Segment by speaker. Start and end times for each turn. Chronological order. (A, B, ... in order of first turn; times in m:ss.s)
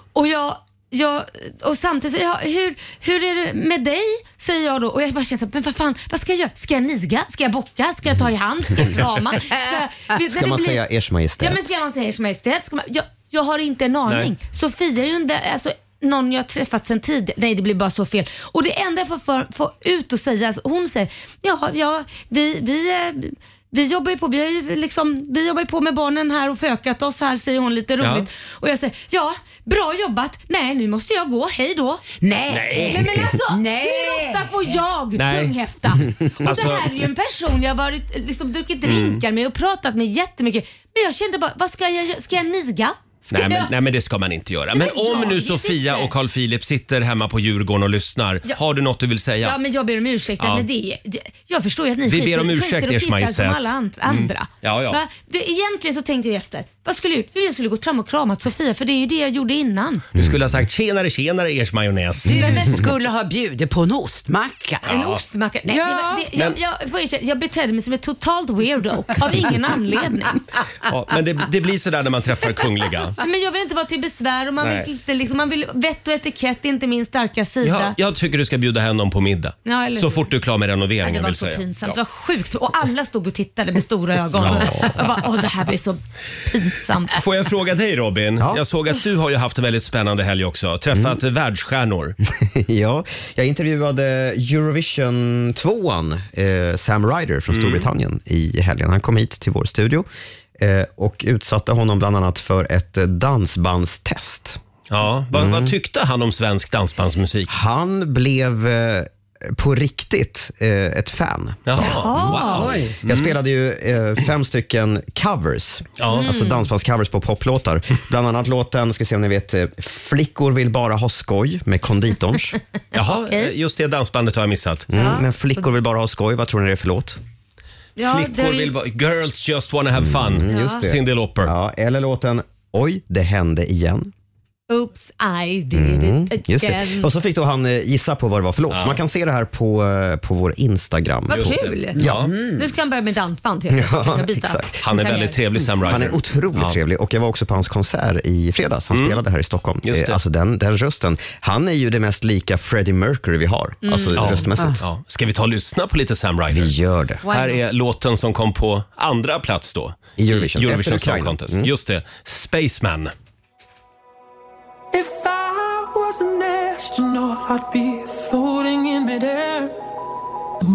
0:00.2-0:10.8 A
0:10.2-0:11.6 B
0:11.4-0:32.2 A
0:28.0-0:28.3 C
0:32.2-0:34.5 D
0:32.5-0:33.2 C
0:32.7-0:43.7 A
0:35.2-0:35.6 C
0:36.4-0:37.0 C
0:38.8-0:39.2 C
0:43.3-0:49.6 C
0:44.7-0:46.1 A
0:49.4-1:00.0 A
0:50.4-0:50.7 C
0:52.0-0:55.0 C
1:00.2-1:02.8 C
1:00.2-1:00.4 B
1:02.2-1:04.9 D
1:02.4-1:02.7 A
1:04.9-1:05.2 C
1:04.9-1:10.4 A
1:05.7-1:06.3 D
1:10.9-1:13.2 C
1:13.2-1:18.0 A
1:14.6-1:14.9 C
1:17.6-1:22.0 C
1:19.6-1:20.3 A
1:21.0-1:27.2 A
1:24.4-1:25.1 C
1:24.5-1:24.9 B
1:27.1-1:32.2 C
1:32.3-1:40.1 B
1:37.5-1:37.9 C
1:40.6-1:44.6 B
1:44.9-1:47.5 C
1:45.3-1:45.7 B
1:47.5-2:02.6 B
1:51.7-1:53.4 C
1:51.8-1:52.7 A
1:52.6-1:52.9 D
1:56.0-1:56.3 C
1:56.1-1:56.6 A
2:02.9-2:04.9 C
2:03.0-2:03.5 A
2:04.9-2:07.2 B
2:04.9-2:05.7 A
2:08.0-2:08.7 A
2:08.0-2:11.5 C
2:10.0-2:14.1 B
2:10.5-2:10.8 A
2:14.7-2:17.1 A
2:15.7-2:22.4 B
2:18.7-2:19.0 C
2:21.3-2:25.4 A
2:21.3-2:22.3 C
2:23.7-2:24.7 B
2:24.8-2:26.8 C
2:25.8-2:34.8 B
2:28.9-2:29.2 C
2:29.8-2:30.2 C
2:33.8-2:34.3 A
2:34.2-2:36.7 C
2:36.5-2:37.2 B
2:37.2-2:37.6 A
2:37.3-2:43.1 C
2:40.2-2:41.7 B
2:44.9-2:49.7 E